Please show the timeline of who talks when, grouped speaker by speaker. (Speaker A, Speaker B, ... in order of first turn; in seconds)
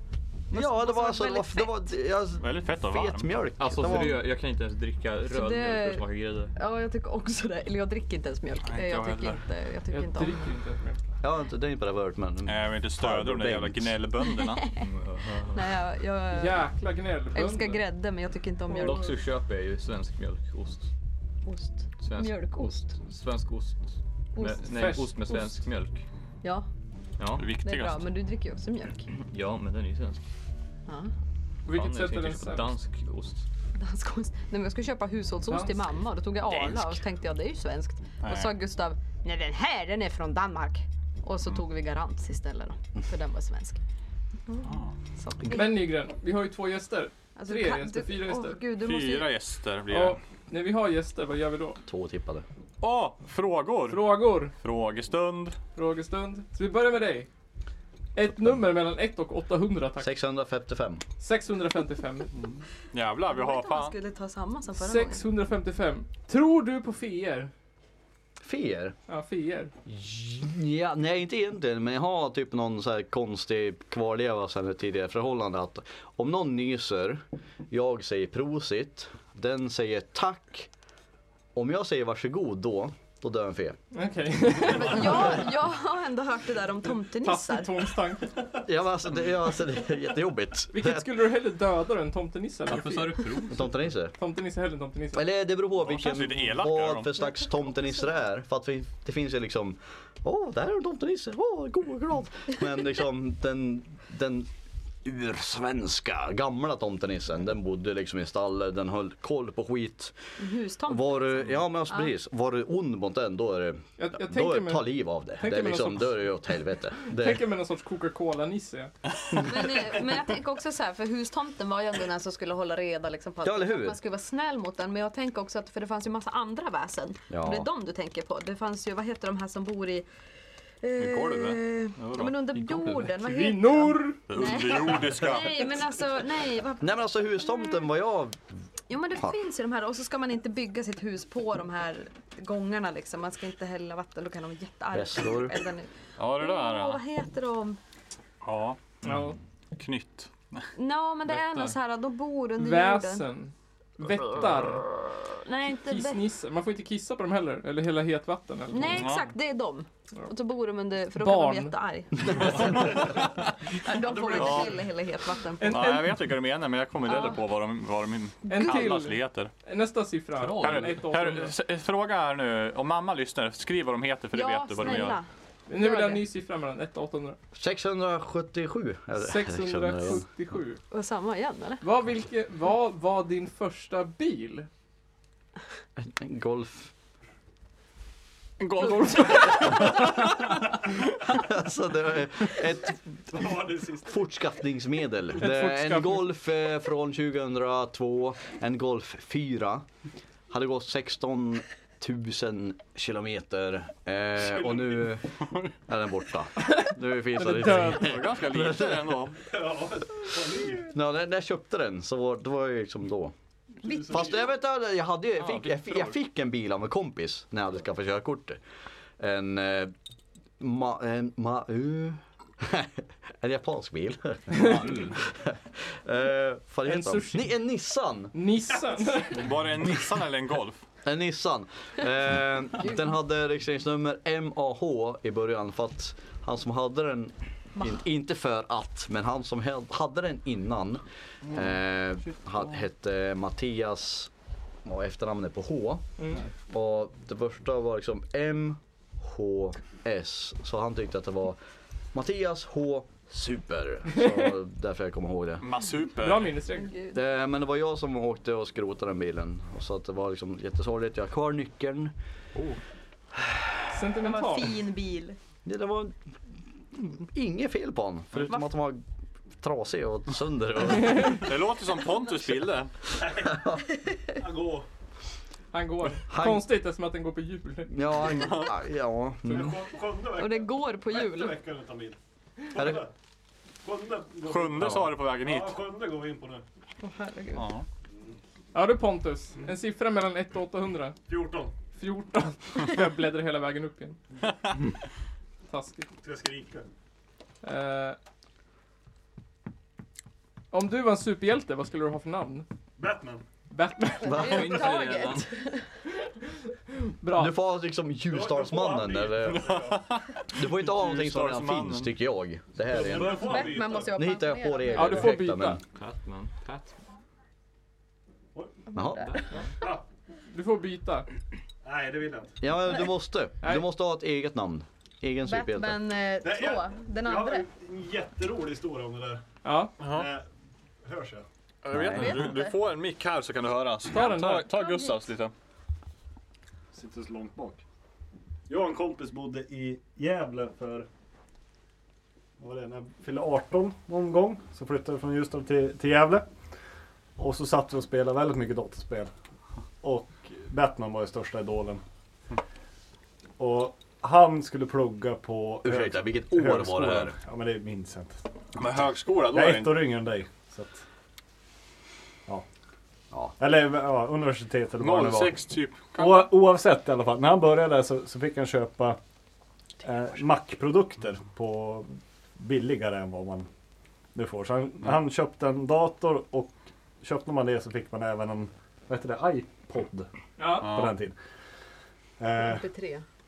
Speaker A: 0.5-1.8, 5.3-6.0, 6.5-10.4, 14.3-14.8, 15.4-16.7, 17.3-19.2, 21.4-22.9, 24.4-24.7, 27.6-29.1, 30.9-31.1, 33.8-43.8, 44.5-45.9, 47.4-49.3, 63.2-65.3, 84.8-87.8, 110.4-112.1, 119.4-130.1, 130.8-136.9, 138.9-147.8, 150.8-153.3, 155.3-156.2, 158.7-163.1, 163.7-166.0, 167.1-167.4, 168.5-169.0, 174.3-176.2, 180.9-181.8, 189.0-189.9, 213.8-214.4, 256.7-257.2, 264.2-265.4, 280.4-281.6, 287.0-287.7, 304.2-305.9, 313.2-315.4, 318.9-319.5, 325.4-327.6, 332.0-332.8, 334.7-335.2, 382.6-383.2
Speaker B: 0.5-4.2, 11.2-14.0, 51.9-52.5, 58.3-58.6, 60.0-61.0, 68.4-69.0, 69.9-80.7, 81.5-83.8, 88.6-91.2, 93.5-94.1, 95.1-104.5, 105.0-110.2, 110.9-117.5, 123.4-124.0, 127.3-127.7, 136.8-138.4, 144.9-145.6, 177.5-180.2, 186.0-186.9, 191.3-193.5, 194.1-199.8, 200.5-209.2, 210.8-213.3, 214.1-218.6, 219.2-219.9, 220.6-228.3, 231.0-244.3, 244.8-246.0, 246.7-251.6, 252.1-255.7, 257.1-262.1, 263.3-263.9, 265.6-266.2, 266.9-269.0, 269.6-271.5, 273.4-273.8, 276.3-276.7, 277.9-279.7, 282.8-283.0, 304.2-304.8, 307.3-309.7, 310.5-315.8, 318.9-319.4, 322.6-326.0, 331.9-332.4, 355.8-357.4
Speaker C: 2.4-3.3, 8.6-9.4, 12.5-14.7, 27.4-28.1, 36.5-37.0, 38.2-38.5, 44.6-44.9, 48.7-50.2, 52.8-55.6, 62.3-64.0, 95.8-97.2, 131.0-132.4, 134.3-135.7, 146.2-147.0, 148.4-149.1, 149.7-150.7, 158.9-159.3, 164.3-164.8, 165.6-169.5, 170.5-175.2, 188.8-190.1, 207.5-209.4, 229.3-230.8, 255.6-256.5, 262.6-262.8, 271.2-272.9, 278.3-278.8, 284.5-285.8, 287.5-287.9, 294.5-294.7, 309.5-312.1, 330.0-330.3, 331.8-335.5, 358.8-360.1, 365.0-366.5, 380.8-381.1
Speaker D: 3.6-6.5, 14.8-15.8, 18.7-20.9, 22.0-26.0, 27.2-27.5, 29.3-30.2, 31.7-33.5, 92.7-93.7, 132.5-133.2, 151.3-151.7, 170.4-171.0, 224.6-225.2, 304.3-305.5, 315.9-317.0
Speaker E: 9.9-11.0, 16.3-17.8, 24.7-25.1, 31.7-32.7, 35.5-35.8, 45.5-48.6, 49.9-51.8, 53.9-54.5, 55.8-57.3, 58.1-60.1, 61.2-62.3, 64.8-67.5, 69.1-69.7, 83.9-85.5, 87.2-88.5, 90.7-93.4, 94.2-95.3, 114.0-116.3, 117.0-118.9, 133.2-134.2, 149.0-149.4, 152.6-154.9, 155.9-159.1, 161.2-161.8, 165.6-166.1, 168.5-171.5, 175.7-177.4, 179.2-180.8, 181.8-184.7, 195.4-196.3, 207.4-208.1, 226.8-227.5, 228.3-229.5, 256.2-256.9, 263.9-264.7, 275.7-277.9, 288.7-291.2, 291.9-294.2, 295.7-296.1, 297.6-298.2, 300.7-302.7, 303.7-304.4, 307.2-307.6, 314.9-315.8, 320.5-321.3, 329.6-329.9, 334.1-334.7, 380.6-380.9
Speaker F: 164.0-164.9, 193.3-194.3, 204.4-205.0, 209.4-210.9, 213.8-214.5, 228.9-229.2, 273.2-273.6, 274.4-274.9, 279.4-282.2, 282.7-283.1, 283.8-286.6, 291.3-291.7, 296.2-296.9, 303.0-303.4, 308.3-310.1, 312.9-314.2, 318.6-318.8, 319.8-320.1, 321.8-322.6, 326.4-329.4, 330.0-330.5, 331.0-331.5, 336.9-337.8, 338.7-341.1, 342.6-346.5, 347.4-349.3, 350.0-352.0, 353.6-358.4, 359.5-361.0, 363.6-369.2, 370.0-373.7, 374.4-381.4, 382.4-382.9